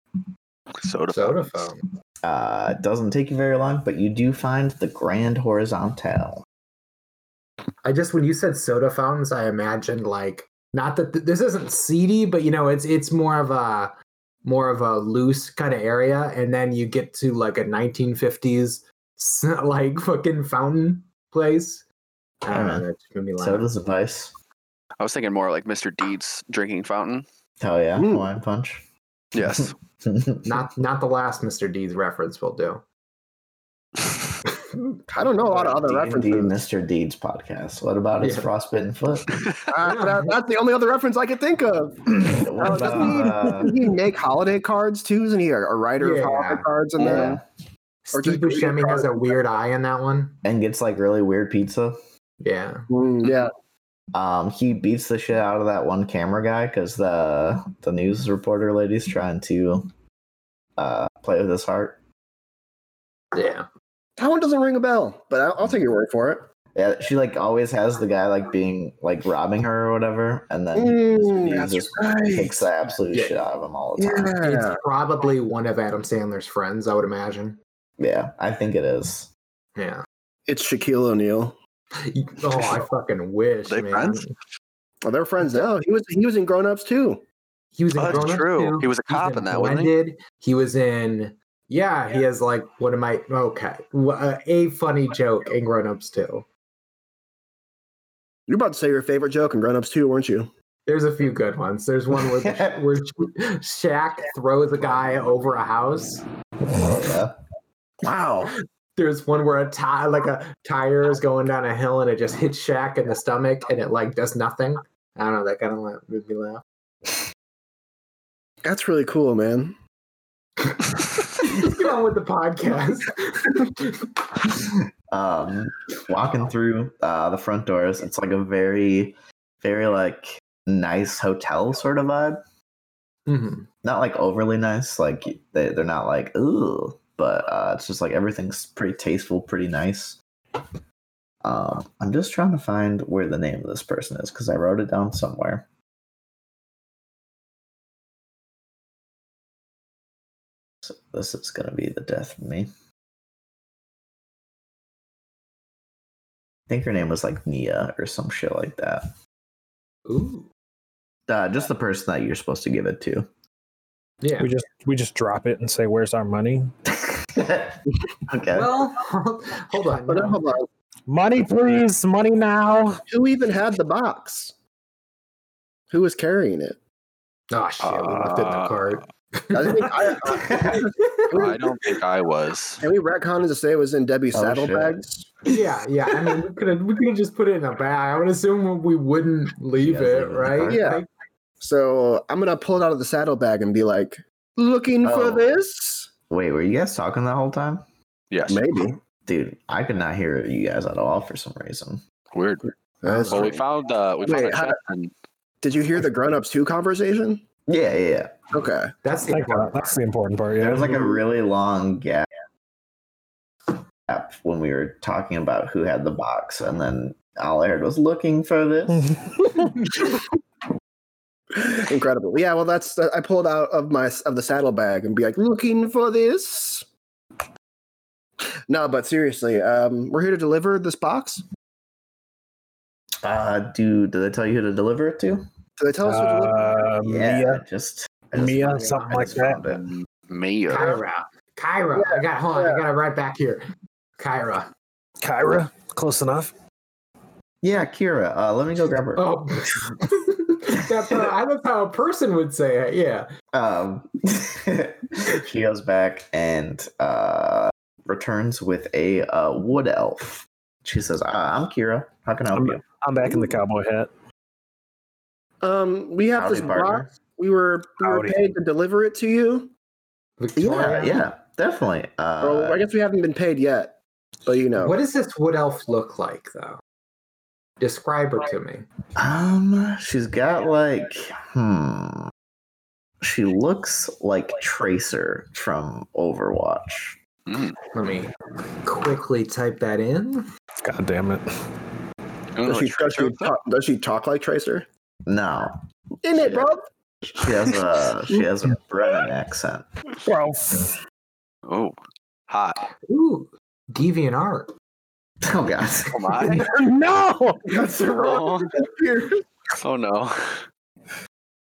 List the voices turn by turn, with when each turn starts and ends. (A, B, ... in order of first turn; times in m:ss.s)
0:00.8-0:01.7 A
0:01.1-0:01.8 B
0:02.2-0:06.4 C
0:07.8-0:13.9 B
0:14.4-0:21.9 B
0:22.4-0:23.7 B
0:22.5-0:22.9 C
0:23.4-0:24.3 C
0:25.0-0:27.2 A
0:27.6-0:28.9 C
0:28.0-0:28.3 D
0:29.3-0:29.8 A
0:29.4-0:30.5 C
0:30.5-0:32.8 B
0:35.1-0:39.5 C
0:35.1-0:36.6 D
0:38.2-0:38.5 B
0:39.7-0:47.4 D
0:39.8-0:40.3 B
0:42.1-0:43.8 C
0:46.0-0:47.2 B
0:47.0-0:47.4 C
0:48.0-0:50.4 B
0:48.2-0:49.4 D
0:50.4-0:52.0 C
0:52.4-0:52.9 B
0:52.9-0:53.5 D
0:54.1-0:59.9 C
1:00.8-1:02.0 C
1:03.3-1:03.7 B
1:04.2-1:06.5 D
1:06.7-1:14.4 C
1:10.8-1:12.7 D
1:13.1-1:13.4 B
1:14.0-1:14.8 D
1:14.4-1:17.6 B
1:18.0-1:19.3 C
1:19.8-1:20.0 B
1:20.5-1:21.6 D
1:22.0-1:24.3 B
1:23.7-1:24.2 A
1:25.0-1:27.2 D
1:27.7-1:36.5 B
1:28.0-1:29.9 A
1:38.5-1:40.5 D
1:40.9-1:46.2 B
1:42.2-1:42.9 C
1:46.7-1:47.4 C
1:48.0-1:48.5 D
1:49.0-1:56.6 B
1:58.6-1:59.8 D
2:00.6-2:04.1 B
2:04.6-2:12.4 C
2:13.3-2:13.7 B
2:13.8-2:20.2 C
2:21.4-2:25.7 C
2:30.8-2:32.7 C
2:36.7-2:39.1 C
2:40.1-2:40.5 B
2:41.3-2:43.3 C
2:44.2-2:44.5 B
2:44.4-2:46.7 E
2:46.9-2:48.8 C
2:48.5-2:50.4 B
2:50.1-2:50.7 D
2:51.1-2:53.0 E
2:53.1-2:54.6 D
2:55.9-2:56.8 D
2:57.5-3:01.6 B
2:57.8-2:59.0 A
2:59.5-3:01.6 D
3:00.4-3:00.7 C
3:01.3-3:02.8 A
3:02.8-3:05.3 D
3:04.3-3:05.0 C
3:05.5-3:11.1 B
3:09.8-3:11.0 C
3:10.7-3:11.0 D
3:11.6-3:16.1 D
3:15.0-3:15.6 C
3:16.3-3:17.8 C
3:18.3-3:18.8 A
3:18.5-3:19.0 D
3:19.3-3:22.0 C
3:22.3-3:22.7 A
3:23.0-3:23.6 D
3:23.1-3:23.5 B
3:23.3-3:25.1 A
3:24.2-3:24.8 D
3:25.6-3:27.4 D
3:27.7-3:28.4 C
3:28.5-3:28.9 D
3:29.0-3:30.0 B
3:29.3-3:31.2 E
3:30.6-3:32.3 C
3:33.7-3:39.2 C
3:38.9-3:40.0 E
3:41.5-3:46.9 D
3:48.7-3:51.4 D
3:53.2-3:55.5 C
3:55.8-3:56.9 D
3:56.0-3:57.6 E
3:57.0-3:59.9 C
3:58.4-3:59.6 E
3:58.8-3:59.3 B
3:59.7-4:00.9 A
4:00.7-4:03.6 B
4:02.0-4:02.9 D
4:04.2-4:04.7 B
4:05.2-4:06.5 E
4:07.6-4:09.3 C
4:09.2-4:13.3 B
4:13.5-4:22.8 C
4:22.6-4:24.1 E
4:25.6-4:29.7 D
4:26.3-4:27.1 C
4:28.0-4:28.4 E
4:30.4-4:31.2 B
4:30.6-4:31.1 D
4:30.7-4:32.9 C
4:32.4-4:35.0 D
4:34.8-4:36.8 B
4:37.8-4:38.9 B
4:39.2-4:42.3 C
4:43.2-4:47.2 C
4:47.5-4:47.8 A
4:47.9-4:48.3 B
4:48.8-4:50.5 B
4:50.8-4:51.4 E
4:52.6-4:53.6 A
4:52.6-4:54.9 D
4:55.3-4:56.7 C
4:56.2-4:56.8 D
4:57.4-4:59.9 C
5:00.2-5:01.0 E
5:01.7-5:02.0 A
5:02.5-5:02.9 A
5:03.1-5:04.7 B
5:05.4-5:06.5 C
5:06.1-5:06.7 A
5:06.4-5:07.8 E
5:07.7-5:09.4 D
5:08.0-5:08.7 A
5:09.8-5:10.6 A